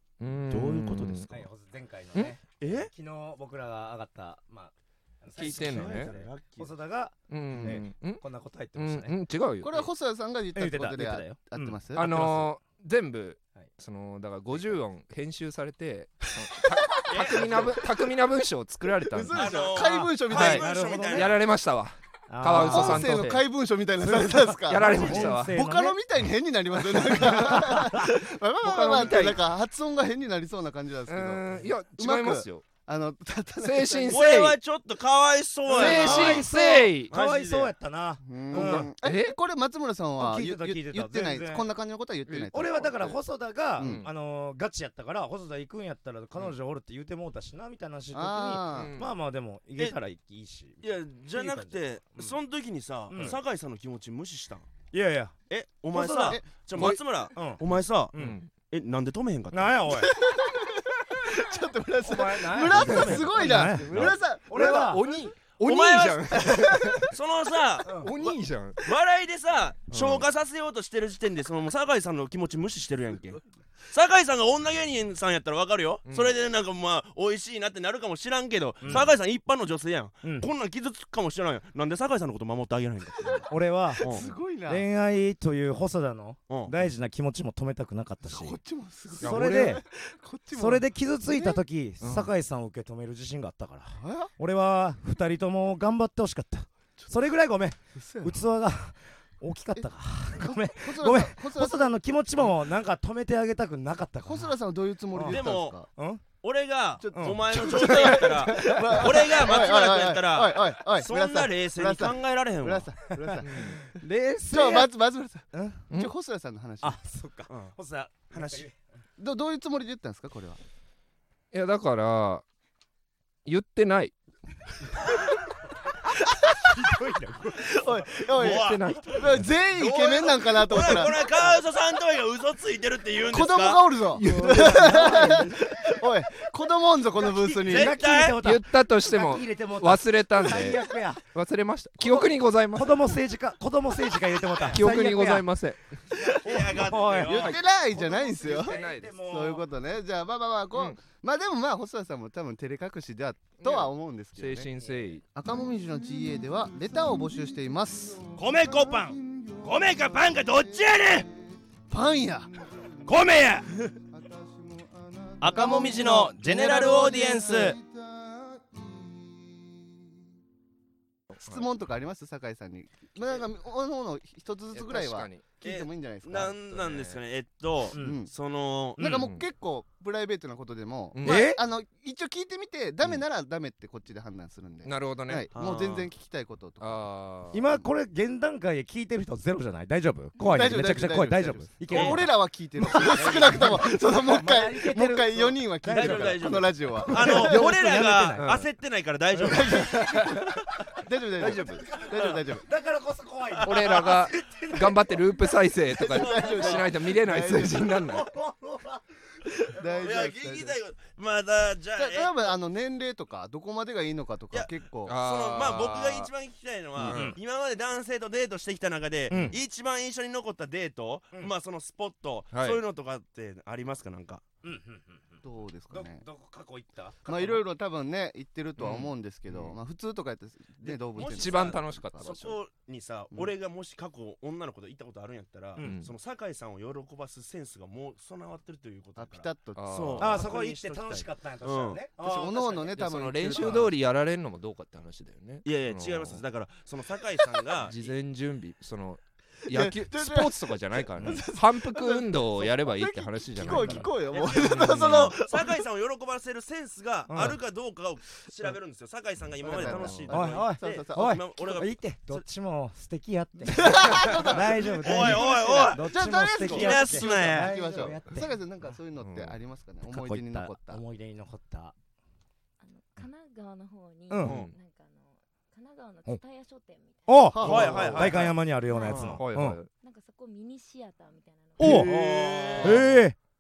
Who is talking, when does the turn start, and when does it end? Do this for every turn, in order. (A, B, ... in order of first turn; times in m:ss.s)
0:00.2-0:01.4 A
0:00.5-0:01.4 B
0:01.2-0:09.1 C
0:02.6-0:02.9 B
0:05.4-0:06.1 A
0:05.4-0:06.7 B
0:07.3-0:08.2 A
0:07.5-0:07.8 D
0:08.8-0:09.9 A
0:09.6-0:12.0 D
0:10.5-0:12.5 C
0:11.9-0:19.7 A
0:17.0-0:17.8 B
0:19.1-0:20.7 D
0:19.3-0:21.4 B
0:20.3-0:23.4 A
0:20.4-0:21.4 C
0:22.3-0:23.2 C
0:22.5-0:31.4 D
0:24.0-0:26.0 C
0:24.7-0:25.6 A
0:26.9-0:28.1 C
0:28.6-0:29.4 A
0:31.1-0:32.7 A
0:32.0-0:34.2 D
0:33.6-0:34.6 A
0:34.1-0:37.7 B
0:35.7-0:37.1 A
0:35.7-0:38.9 C
0:38.2-0:43.2 D
0:38.5-0:39.4 A
0:40.2-0:41.7 C
0:42.5-0:52.4 C
0:43.8-0:44.0 D
0:43.8-0:44.1 A
0:48.1-0:48.9 D
0:48.7-0:49.1 A
0:50.8-0:54.7 B
0:53.1-0:53.4 C
0:54.9-0:55.4 C
0:55.5-0:59.9 B
0:55.9-0:56.4 C
0:57.4-0:57.6 C
0:58.1-0:58.4 C
0:58.2-0:58.5 A
0:59.5-1:00.2 C
0:59.9-1:05.0 D
1:02.0-1:05.0 C
1:02.7-1:07.1 A
1:05.6-1:06.5 B
1:06.4-1:07.1 D
1:07.1-1:24.2 B
1:07.8-1:08.1 C
1:08.0-1:08.8 A
1:09.9-1:10.2 A
1:16.1-1:16.4 A
1:18.8-1:19.1 C
1:20.2-1:20.5 C
1:23.5-1:24.1 C
1:24.0-1:24.8 D
1:24.6-1:28.6 C
1:26.5-1:26.8 B
1:28.3-1:31.6 D
1:29.2-1:29.8 C
1:29.2-1:29.8 A
1:30.6-1:44.5 C
1:32.0-1:32.3 A
1:34.0-1:34.3 D
1:38.0-1:38.4 D
1:40.4-1:41.9 D
1:44.2-1:45.9 D
1:45.1-1:45.4 C
1:45.3-1:45.8 B
1:46.0-1:46.2 C
1:46.4-1:52.9 B
1:47.0-1:53.9 D
1:47.1-1:47.7 C
1:53.2-1:54.9 C
1:53.4-1:53.8 A
1:54.5-1:57.0 D
1:55.5-1:55.8 C
1:56.8-1:58.8 C
1:57.5-1:57.7 B
1:58.3-1:58.7 B
1:59.2-2:00.6 D
2:01.5-2:02.4 A
2:03.4-2:04.1 A
2:06.6-2:08.0 C
2:07.6-2:11.5 D
2:08.3-2:09.2 B
2:08.4-2:09.5 A
2:09.7-2:13.9 B
2:13.2-2:18.0 D
2:14.1-2:15.5 A
2:14.2-2:15.8 C
2:17.2-2:21.2 C
2:17.6-2:18.4 B
2:18.4-2:23.2 A
2:22.0-2:25.5 C
2:24.7-2:25.9 A
2:26.1-2:29.6 C
2:26.2-2:27.6 B
2:27.3-2:34.7 D
2:28.5-2:29.1 A
2:33.6-2:35.2 A
2:35.4-2:38.4 D
2:38.4-2:41.3 B
2:39.6-2:40.8 D
2:41.9-2:42.6 D
2:43.0-2:43.7 B
2:44.1-2:48.6 D
2:45.4-2:47.8 B
2:51.3-2:51.6 A
2:51.4-2:56.6 D
2:54.7-2:55.4 A
2:55.6-2:59.0 B
2:56.7-2:57.2 A
2:58.0-2:58.3 D
2:59.0-3:07.1 D
2:59.0-2:59.3 C
2:59.0-2:59.4 A
3:01.1-3:01.5 A
3:01.2-3:01.6 C
3:04.8-3:05.5 A
3:05.5-3:06.1 B
3:06.8-3:07.6 A
3:07.5-3:18.6 C
3:10.4-3:17.7 D
3:11.9-3:12.2 B
3:13.0-3:13.6 B
3:13.0-3:13.8 A
3:15.9-3:20.2 B
3:18.4-3:18.6 A
3:19.4-3:22.6 D
3:19.4-3:20.4 C
3:20.0-3:20.5 A
3:21.4-3:21.8 A
3:21.4-3:25.6 C
3:23.5-3:24.1 B
3:23.6-3:28.3 A
3:25.9-3:27.9 D
3:26.1-3:26.9 B
3:28.0-3:29.9 C
3:29.7-3:30.8 D
3:30.0-3:32.5 B
3:32.0-3:35.2 D
3:34.5-3:44.4 B
3:35.1-3:36.3 A
3:37.0-3:37.4 A
3:37.0-3:37.4 C
3:39.3-3:39.6 C
3:42.5-3:42.8 A
3:44.6-3:47.3 C
3:45.4-3:46.2 D
3:47.3-3:47.6 B
3:47.3-3:52.4 D
3:48.8-3:49.1 A
3:50.8-4:02.0 B
3:51.2-3:52.6 A
3:55.8-3:56.1 A
3:59.2-4:00.2 D
3:59.8-4:00.4 A
4:00.2-4:03.0 C
4:02.2-4:04.0 D
4:02.9-4:06.4 A
4:05.6-4:08.1 B
4:07.8-4:15.4 A
4:09.7-4:15.7 D
4:13.6-4:14.1 C
4:14.3-4:22.4 B
4:17.3-4:17.6 C
4:19.6-4:21.4 D
4:19.7-4:20.3 A
4:20.3-4:28.5 C
4:23.7-4:31.0 D
4:24.5-4:28.1 B
4:29.2-4:29.6 A
4:30.0-4:31.9 C
4:32.8-4:37.6 E
4:34.3-4:34.6 C
4:34.4-4:34.7 A
4:34.4-4:34.7 B
4:37.3-4:39.8 C
4:37.5-4:38.5 D
4:37.6-4:38.5 B
4:37.8-4:38.3 A
4:38.9-4:39.4 E
4:39.1-4:39.4 B
4:39.1-4:39.9 A
4:40.0-4:42.1 E
4:41.8-4:42.1 C
4:41.8-4:43.1 B
4:41.9-4:43.1 A
4:42.8-4:43.4 C